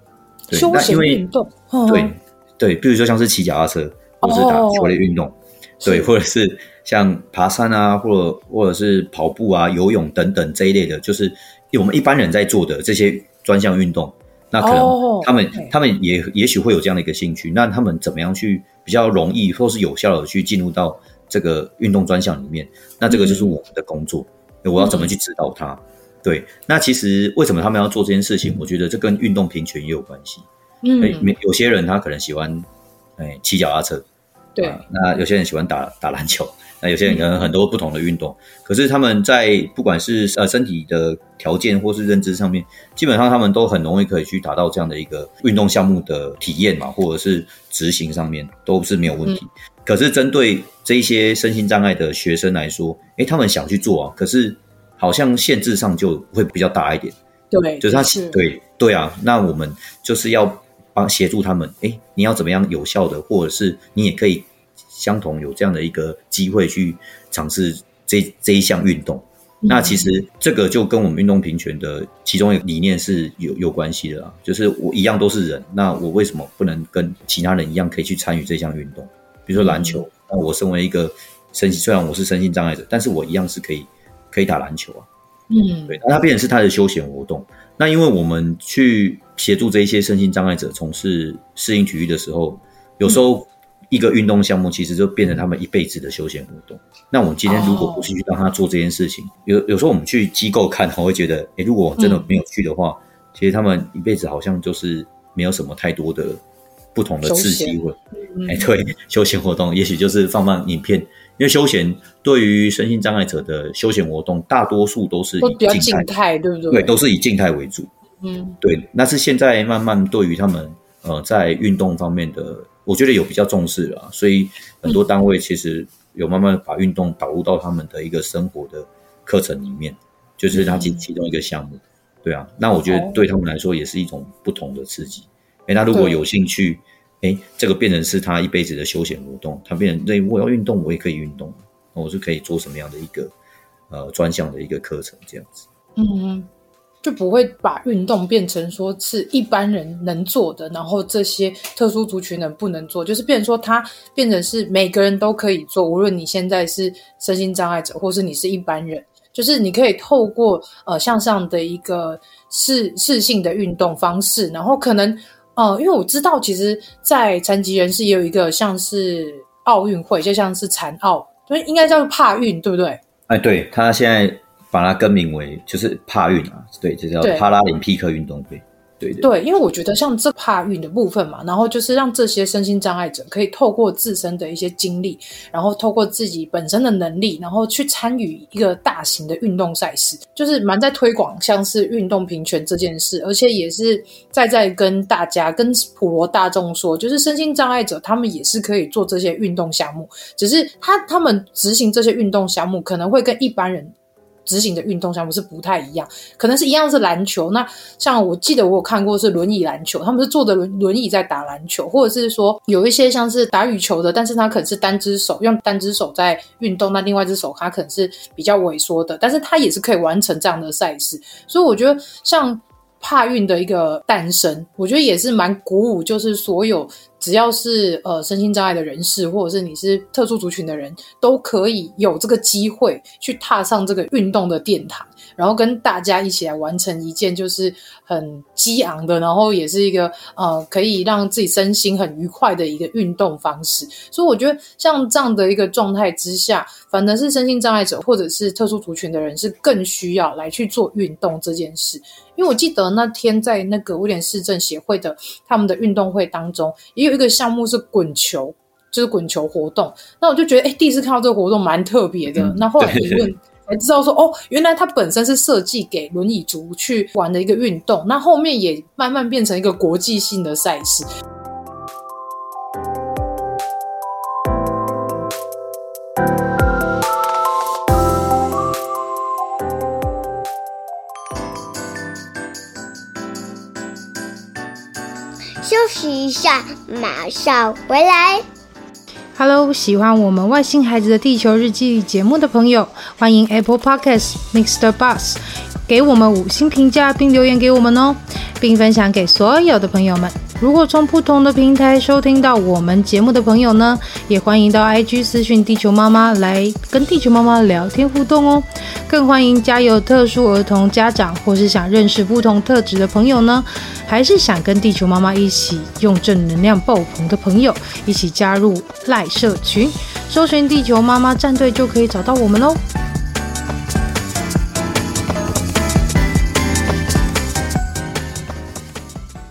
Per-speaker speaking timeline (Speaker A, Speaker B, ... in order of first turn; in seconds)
Speaker A: 0.5-1.2, 1.9-30.5, 31.0-32.7, 33.2-34.0, 34.6-57.2, 57.8-85.1, 85.9-106.4, 107.0-116.1, 116.7-117.9, 118.6-143.3, 143.9-145.7, 173.3-179.3, 262.3-263.3
Speaker B: 0.5-2.1, 4.2-4.9, 5.8-6.1, 14.6-15.7, 23.1-23.5, 24.8-25.1, 30.8-31.3, 34.6-34.8, 57.5-58.4, 69.6-70.1, 79.6-80.0, 85.5-86.0, 97.5-98.1, 102.0-102.3, 107.2-108.7, 115.4-116.9, 118.2-118.6, 130.5-131.1, 132.9-133.2, 135.9-136.2, 146.0-146.5, 147.0-173.0, 179.2-271.1, 289.4-322.8
Speaker C: 285.6-288.4